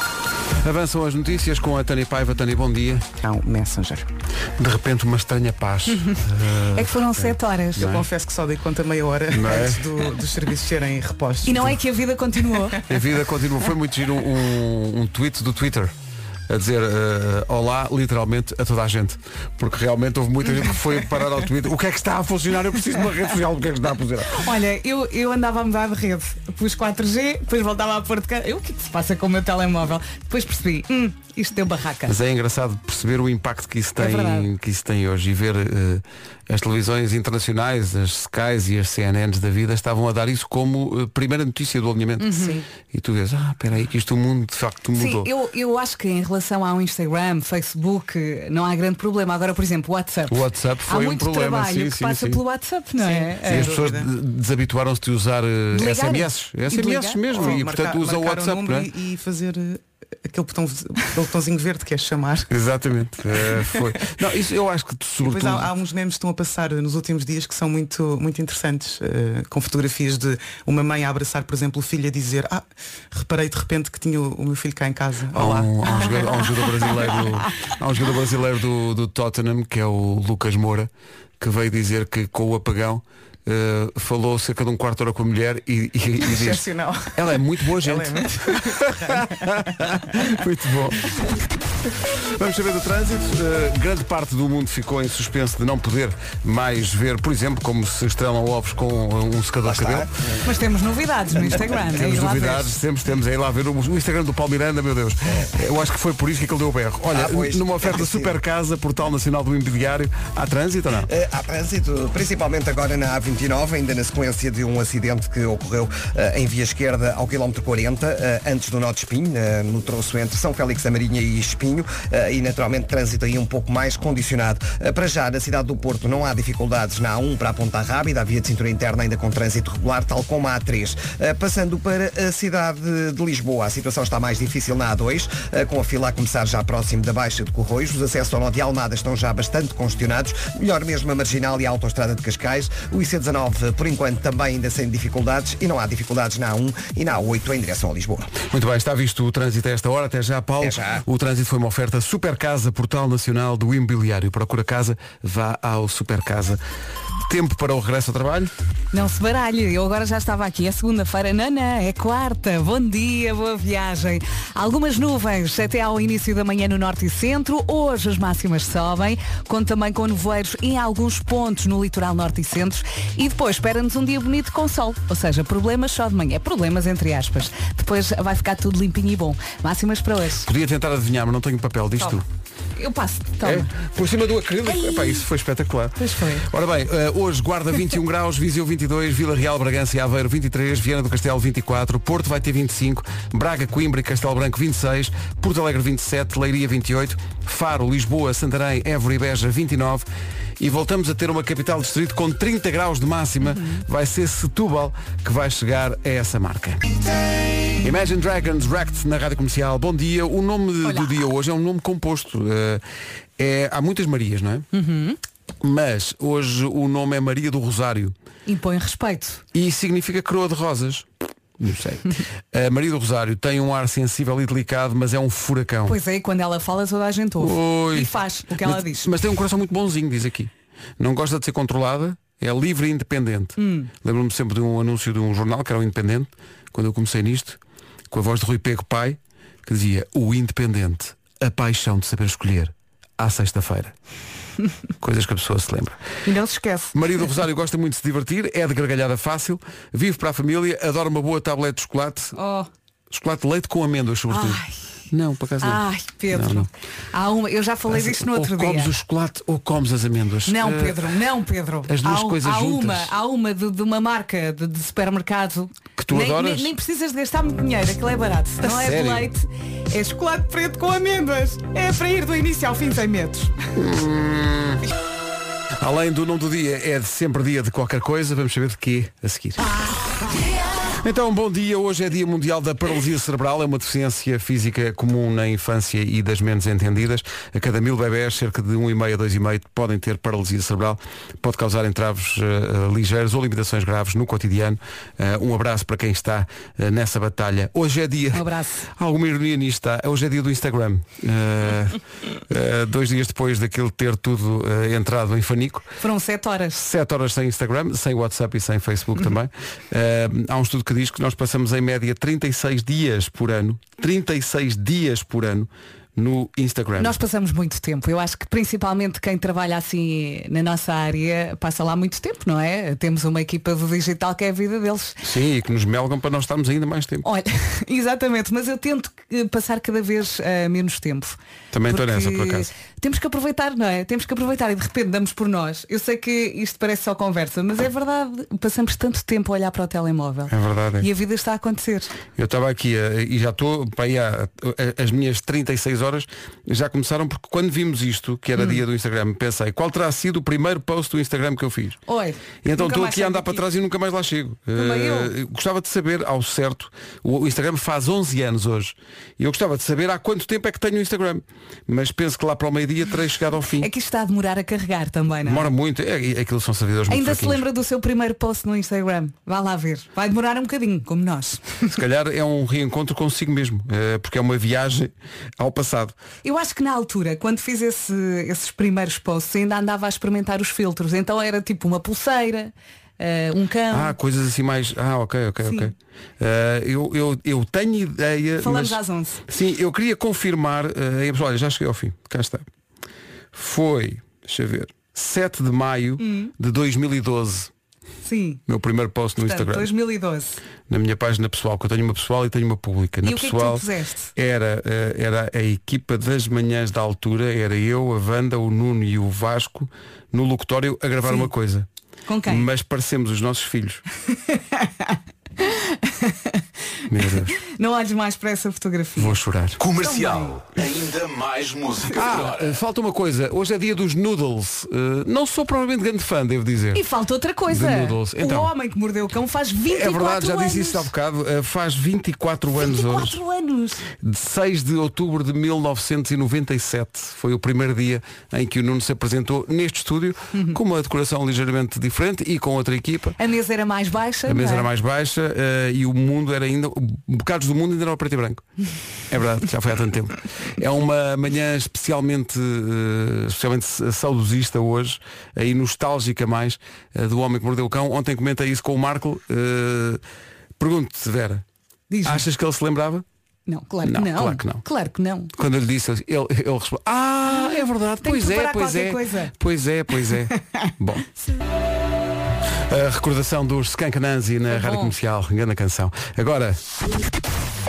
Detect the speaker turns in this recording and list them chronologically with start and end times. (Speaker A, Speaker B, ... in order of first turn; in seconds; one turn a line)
Speaker A: 0.6-3.0
Speaker B: 3.2-4.1
Speaker A: 4.6-8.1
Speaker C: 6.0-6.2
Speaker C: 6.7-7.9
Speaker B: 7.8-11.7
Speaker A: 9.3-9.9
Speaker C: 11.4-12.8
Speaker A: 12.9-15.9
Speaker A: 16.5-24.4
Speaker C: 24.3-32.1
Speaker A: 32.1-45.3
Speaker C: 34.0-34.5
Speaker C: 42.2-42.6
Speaker C: 45.0-53.7
Speaker A: 50.3-52.4
Speaker B: 53.0-54.1
Speaker A: 53.4-58.9
Speaker C: 55.7-57.5
Speaker B: 57.3-62.5
Speaker A: 62.5-65.7
Speaker B: 63.5-63.9
Speaker B: 65.2-77.2
Speaker A: 75.3-91.1
Speaker B: 86.2-89.9
Speaker A: 92.4-100.1
Speaker D: 99.6-100.1
Speaker C: 100.4-102.7
Speaker A: 101.8-111.1
Speaker D: 107.1-108.3
Speaker D: 111.1-148.3
Speaker A: 148.4-156.6
Speaker D: 150.6-151.0
Speaker A: 157.3-158.5
Speaker C: 158.9-180.5
Speaker A: 180.4-182.2
Speaker C: 182.8-183.7
Speaker A: 183.4-200.1
Speaker C: 184.7-185.2
Speaker C: 186.0-186.5
Speaker A: 200.6-206.8
Speaker C: 203.4-203.8
Speaker A: 207.8-212.8
Speaker C: 210.8-211.2
Speaker A: 213.4-214.7
Speaker C: 214.7-215.2
Speaker A: 215.6-218.1
Speaker C: 218.5-219.4
Speaker A: 219.5-221.1
Speaker A: 221.6-226.0
Speaker C: 225.9-229.1
Speaker A: 227.4-237.6
Speaker C: 233.6-233.9
Speaker A: 238.1-243.9
Speaker A: 245.0-246.0
Speaker C: 246.2-247.0
Speaker A: 246.9-252.3
Speaker C: 252.3-252.7
Speaker A: 253.1-256.7
Speaker C: 254.3-254.8
Speaker C: 255.6-258.9
Speaker A: 257.9-261.1
Speaker C: 260.5-273.6
Speaker A: 261.9-263.1
Speaker A: 266.0-266.7
Speaker A: 268.6-269.3
Speaker A: 273.8-274.8
Speaker A: 275.8-279.6
Speaker A: 281.0-298.4
Speaker C: 298.3-298.9
Speaker A: 299.0-305.9
Speaker C: 306.0-306.9
Speaker A: 306.8-317.2
Speaker C: 317.0-325.2
Speaker A: 325.2-327.3
Speaker C: 327.2-342.1
Speaker A: 331.7-332.7
Speaker A: 340.5-341.1
Speaker A: 342.4-352.0
Speaker C: 348.6-348.8
Speaker C: 352.1-353.6
Speaker A: 352.6-363.9
Speaker C: 354.8-355.3
Speaker C: 363.8-365.7
Speaker A: 365.4-367.6
Speaker C: 367.1-371.8
Speaker A: 371.9-376.1
Speaker C: 376.4-384.2
Speaker A: 383.9-392.6
Speaker C: 385.6-385.9
Speaker C: 388.6-389.4
Speaker A: 393.5-397.7
Speaker C: 396.2-396.5
Speaker C: 398.2-398.6
Speaker A: 398.7-399.9
Speaker C: 399.4-400.6
Speaker A: 400.9-411.9
Speaker C: 403.2-404.3
Speaker C: 412.3-412.7
Speaker A: 412.5-414.0
Speaker C: 414.5-416.6
Speaker A: 417.1-417.6
Speaker C: 417.6-419.4
Speaker A: 419.2-419.8
Speaker E: 419.8-422.6
Speaker C: 420.0-420.6
Speaker A: 422.1-427.1
Speaker C: 426.9-431.1
Speaker A: 427.7-428.7
Speaker A: 429.9-433.4
Speaker C: 432.8-434.0
Speaker A: 434.1-443.4
Speaker C: 440.5-440.8
Speaker C: 443.4-444.9
Speaker A: 444.5-448.7
Speaker A: 449.3-460.2
Speaker A: 460.8-461.6
Speaker C: 462.1-462.5
Speaker A: 462.2-463.2
Speaker C: 463.7-465.5
Speaker A: 464.1-464.8
Speaker A: 465.6-471.3
Speaker C: 467.5-469.6
Speaker C: 470.3-470.9
Speaker A: 472.9-476.8
Speaker C: 474.7-475.1